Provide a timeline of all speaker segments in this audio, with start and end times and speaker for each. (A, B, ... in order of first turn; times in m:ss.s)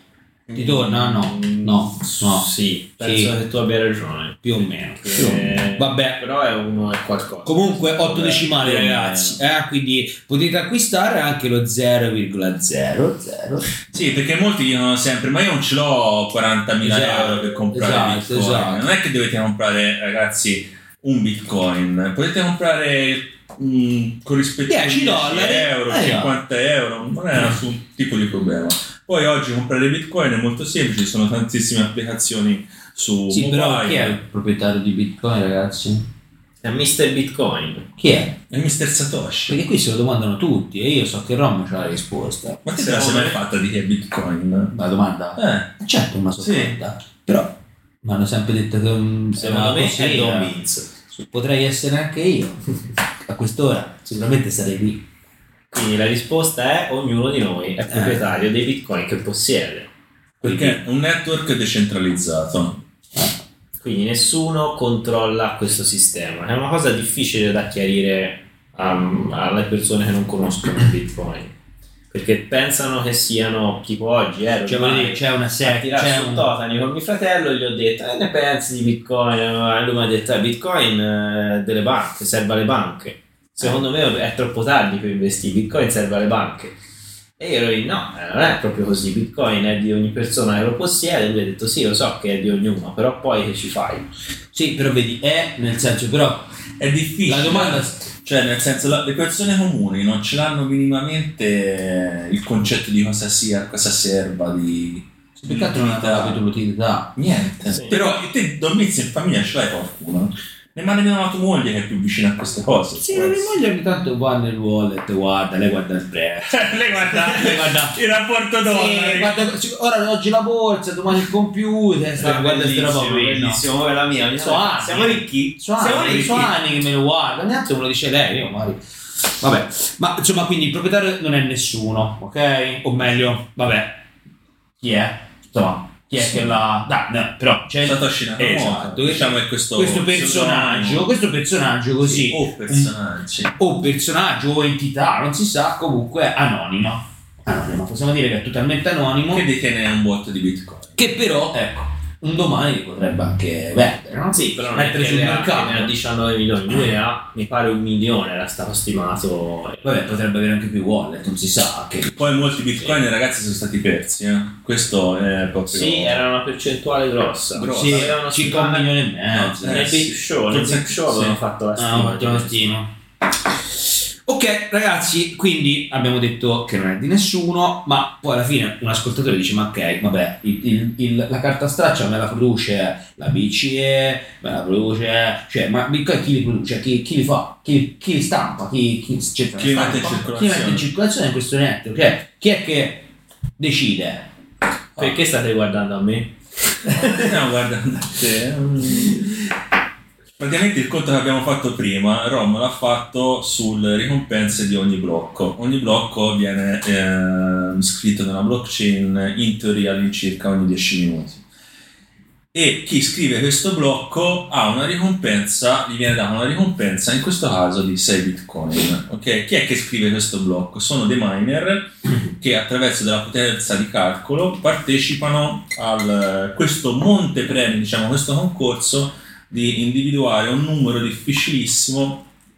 0:00.5-0:04.4 A
0:00.5-0:02.5 B
0:03.0-0:03.3 B
0:04.4-0:06.2 B
0:05.0-0:09.4 A
0:07.4-0:14.0 B
0:13.9-0:34.2 C
0:16.8-0:18.9 B
0:24.7-0:26.3 B
0:33.3-0:36.0 B
0:36.6-0:37.9 A
0:38.0-0:38.4 B
0:38.5-0:39.6 C
0:39.5-0:42.7 B
0:42.6-0:44.7 C
0:42.8-0:43.3 A
0:44.7-0:50.5 B
0:45.4-0:45.7 C
0:46.4-0:46.8 C
0:49.4-0:51.0 A
0:51.2-0:52.6 B
0:53.2-0:55.0 B
0:55.7-0:59.9 A
0:57.9-0:58.3 B
1:00.4-1:02.8 C
1:00.4-1:00.8 B
1:03.8-1:11.5 A
1:12.1-1:26.7 A
1:14.6-1:16.5 B
1:27.4-1:34.0 A
1:34.5-1:36.5 B
1:36.8-1:46.4 C
1:37.2-1:38.1 B
1:45.4-1:47.2 B
1:47.2-1:53.5 C
1:47.7-1:48.2 A
1:53.0-1:58.0 B
1:56.5-1:59.4 C
1:58.6-2:03.6 B
2:02.2-2:06.5 A
2:04.4-2:14.0 B
2:14.8-2:22.9 B
2:16.2-2:16.5 C
2:17.8-2:21.1 C
2:22.0-2:23.5 C
2:23.6-2:29.4 B
2:29.3-2:31.1 C
2:31.0-2:35.9 B
2:34.3-2:40.0 A
2:39.8-2:42.2 B
2:42.1-2:46.2 C
2:45.7-2:48.9 A
2:47.5-2:48.2 C
2:47.6-2:50.0 B
2:49.3-2:51.4 C
2:49.6-2:52.7 A
2:51.8-2:52.9 B
2:53.5-3:14.3 B
3:09.5-3:10.9 C
3:15.0-3:16.3 A
3:16.9-3:19.5 C
3:20.4-3:31.4 C
3:32.5-3:52.2 C